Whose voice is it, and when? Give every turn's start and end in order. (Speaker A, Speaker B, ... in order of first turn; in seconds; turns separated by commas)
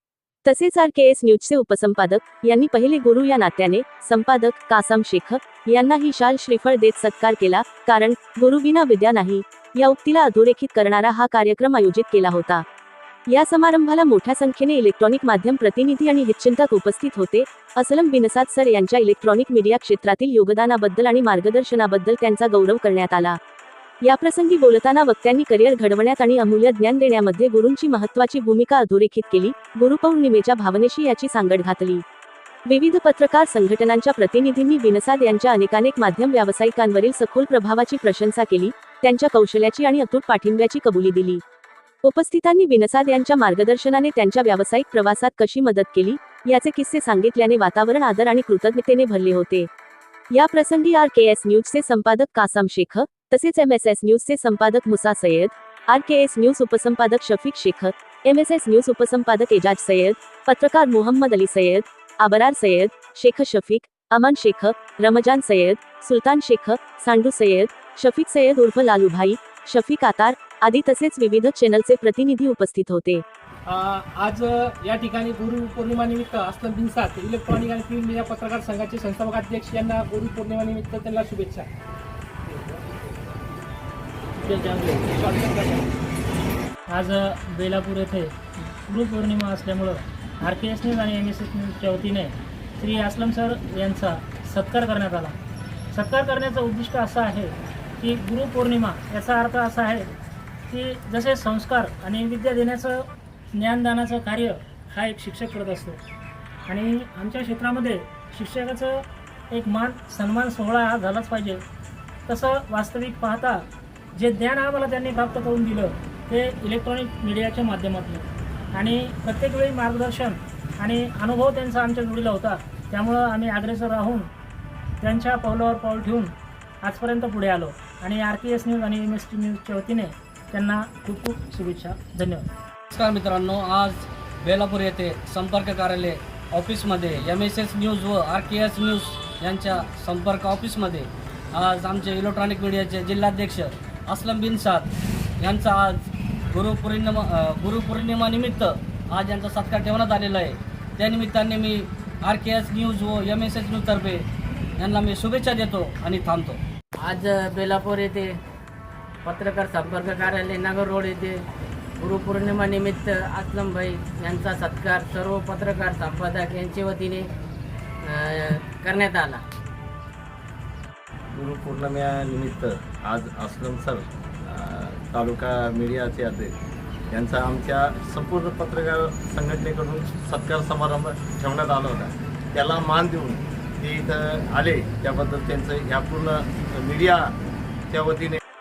Speaker A: 0.5-12.6, Speaker A: 13.3-23.4, Speaker A: 24.0-32.0, Speaker A: 32.7-41.4, Speaker A: 42.0-49.7, Speaker A: 50.3-73.2, Speaker B: 73.7-81.7, Speaker B: 82.5-83.1, Speaker C: 84.5-85.1, Speaker B: 85.2-85.9, Speaker C: 86.9-95.4, Speaker C: 95.9-100.1, Speaker C: 100.7-106.0, Speaker C: 106.7-111.6, Speaker C: 112.3-124.3, Speaker C: 125.0-132.5, Speaker D: 132.9-144.9, Speaker D: 145.4-154.2, Speaker D: 154.8-156.6, Speaker E: 157.0-158.3, Speaker E: 159.2-161.4, Speaker E: 162.0-167.3, Speaker E: 168.1-169.4, Speaker F: 171.3-176.5, Speaker F: 177.1-187.2, Speaker F: 187.9-188.4